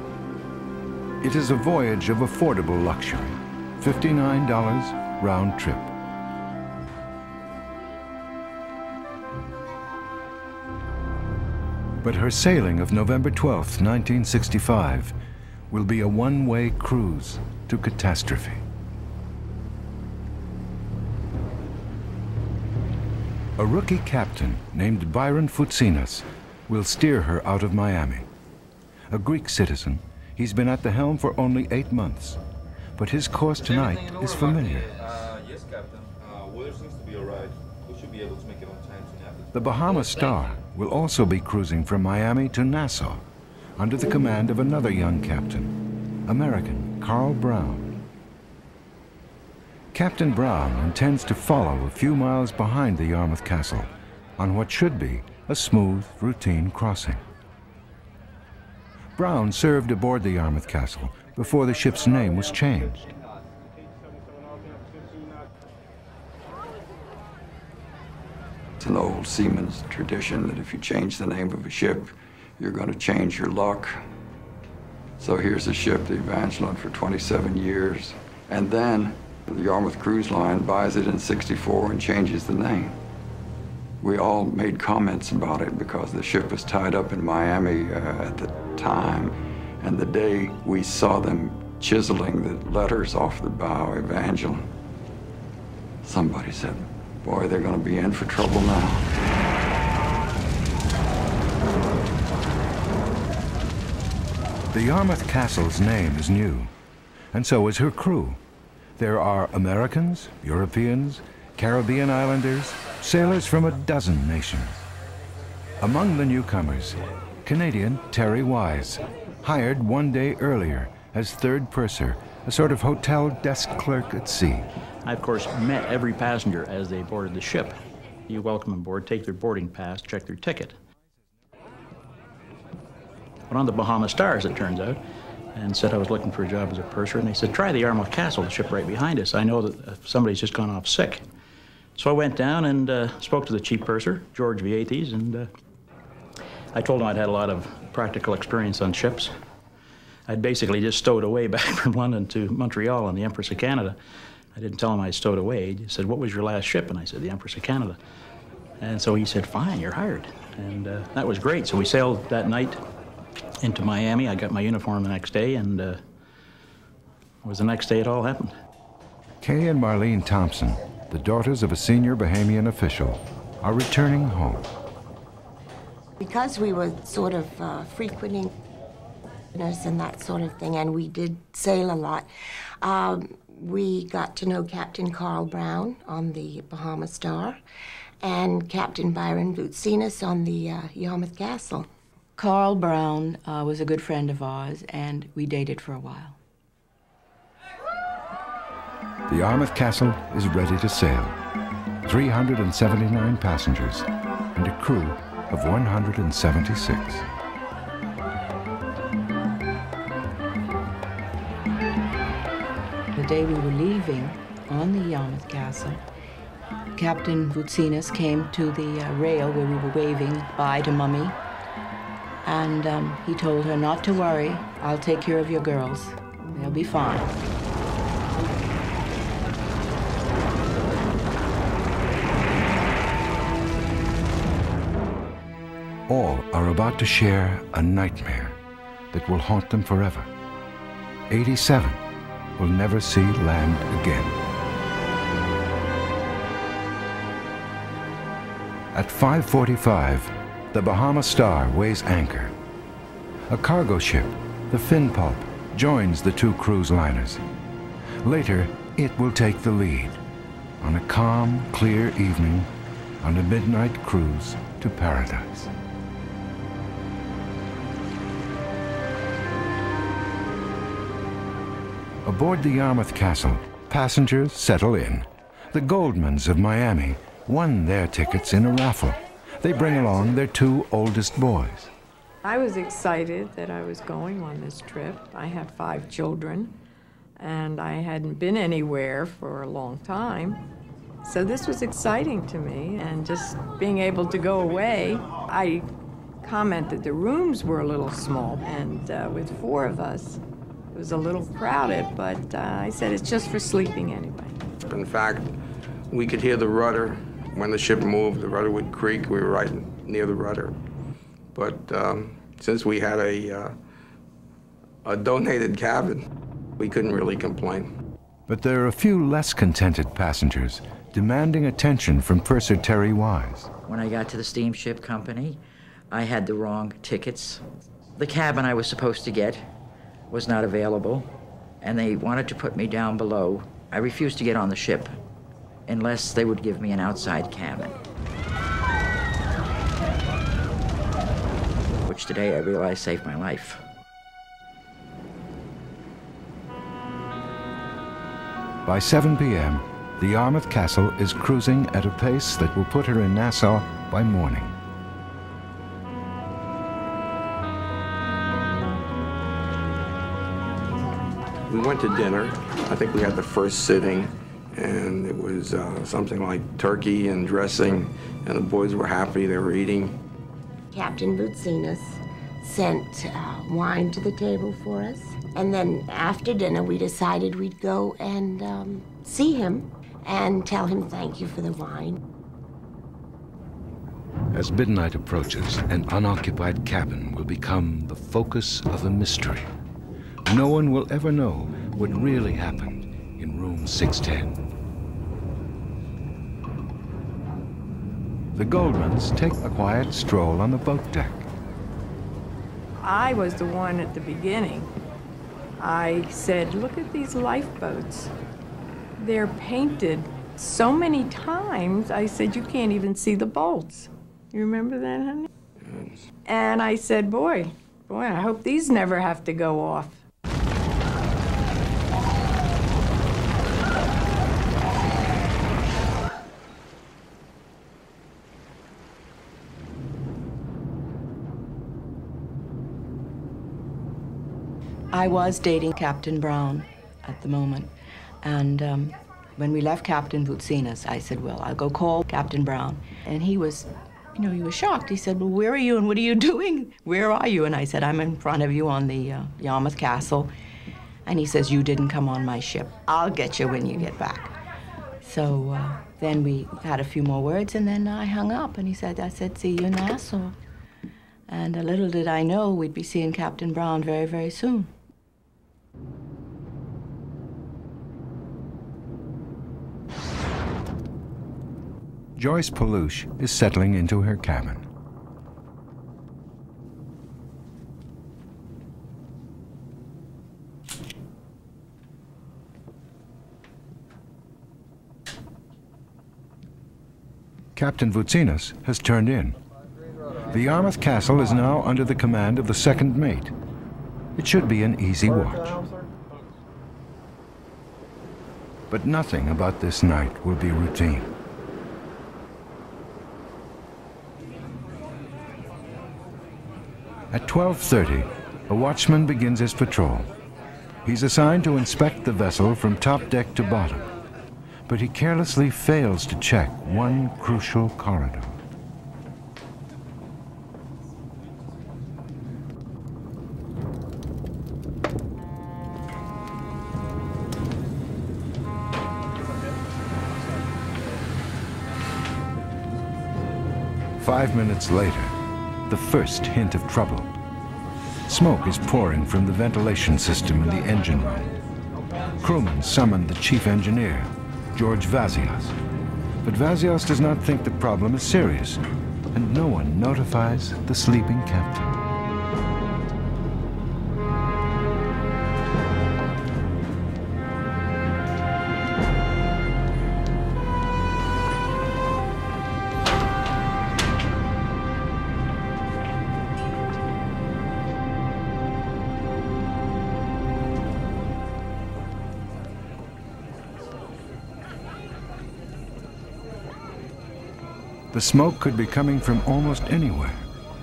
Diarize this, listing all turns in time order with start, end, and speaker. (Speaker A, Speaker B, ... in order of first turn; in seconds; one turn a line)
Speaker A: 1.2-5.9
Speaker A: 12.0-15.2
Speaker A: 15.7-18.6
Speaker A: 23.6-28.3
Speaker A: 29.1-32.4
Speaker A: 33.0-34.9
Speaker B: 35.0-39.5
Speaker A: 39.5-43.2
Speaker A: 43.8-48.0
Speaker A: 49.9-57.2
Speaker A: 59.2-63.1
Speaker C: 68.8-74.0
Speaker C: 75.2-82.9
Speaker C: 84.0-94.7
Speaker C: 96.0-99.1
Speaker A: 104.7-106.7
Speaker A: 107.3-108.4
Speaker A: 109.0-114.8
Speaker A: 115.8-124.7
Speaker D: 125.0-127.8
Speaker D: 128.3-130.8
Speaker D: 133.5-135.0
Speaker D: 135.5-141.2
Speaker D: 141.9-145.5
Speaker D: 146.7-149.3
Speaker D: 150.3-154.0
Speaker D: 154.5-158.0
Speaker D: 158.8-162.8
Speaker D: 163.6-166.0
Speaker D: 167.4-168.5
Speaker A: 169.4-174.7
Speaker E: 176.2-178.6
Speaker E: 179.5-182.3
Speaker E: 182.8-187.6
Speaker E: 188.2-191.9
Speaker F: 192.4-196.3
Speaker A: 199.3-201.4
Speaker A: 202.0-207.2
Speaker F: 213.1-216.0
Speaker F: 216.9-221.3
Speaker F: 222.4-227.3
Speaker A: 236.1-238.6
Speaker A: 239.1-240.3
Speaker A: 241.3-242.0
Speaker A: 242.6-244.4
Speaker A: 248.9-252.5
Speaker A: 253.5-257.4
Speaker A: 258.2-260.2
Speaker A: 260.8-262.7
Speaker A: 263.2-265.7
Speaker A: 272.2-281.9
Speaker G: 282.4-286.7
Speaker G: 287.4-290.6
Speaker G: 291.2-295.9
Speaker G: 296.4-300.4
Speaker G: 300.9-304.6
Speaker H: 304.9-305.5
Speaker H: 306.1-310.8
Speaker H: 311.5-313.8
Speaker H: 315.0-316.2
Speaker H: 316.8-317.9
Speaker A: 318.5-323.7
Speaker I: 323.8-325.6
Speaker I: 326.1-327.6
Speaker I: 328.1-329.6
Speaker I: 330.3-331.3
Speaker I: 331.8-335.1
Speaker I: 335.9-337.9
Speaker I: 342.0-343.8
Speaker A: 348.9-354.8
Speaker H: 361.7-370.2
Speaker E: 370.9-382.2
Speaker A: 384.5-389.7
Speaker A: 390.4-394.6
Speaker A: 398.5-401.5
Speaker G: 403.0-404.9
Speaker G: 405.8-408.3
Speaker G: 409.2-415.5
Speaker H: 415.8-416.2
Speaker G: 416.4-420.2
Speaker F: 435.1-437.9
Speaker F: 438.4-450.5
Speaker F: 451.2-454.5
Speaker F: 455.2-460.6
Speaker F: 461.5-464.9
Speaker A: 472.4-474.9
Speaker A: 487.8-489.6
Speaker A: 490.5-493.5
Speaker A: 494.4-495.8
Speaker A: 498.9-501.3
Speaker A: 507.3-510.3
Speaker A: 511.0-514.0
Speaker A: 514.9-518.6
Speaker A: 534.2-535.3
Speaker A: 535.9-537.3
Speaker A: 538.2-541.5
Speaker A: 542.4-545.8
Speaker A: 546.4-552.0
Speaker A: 578.1-580.5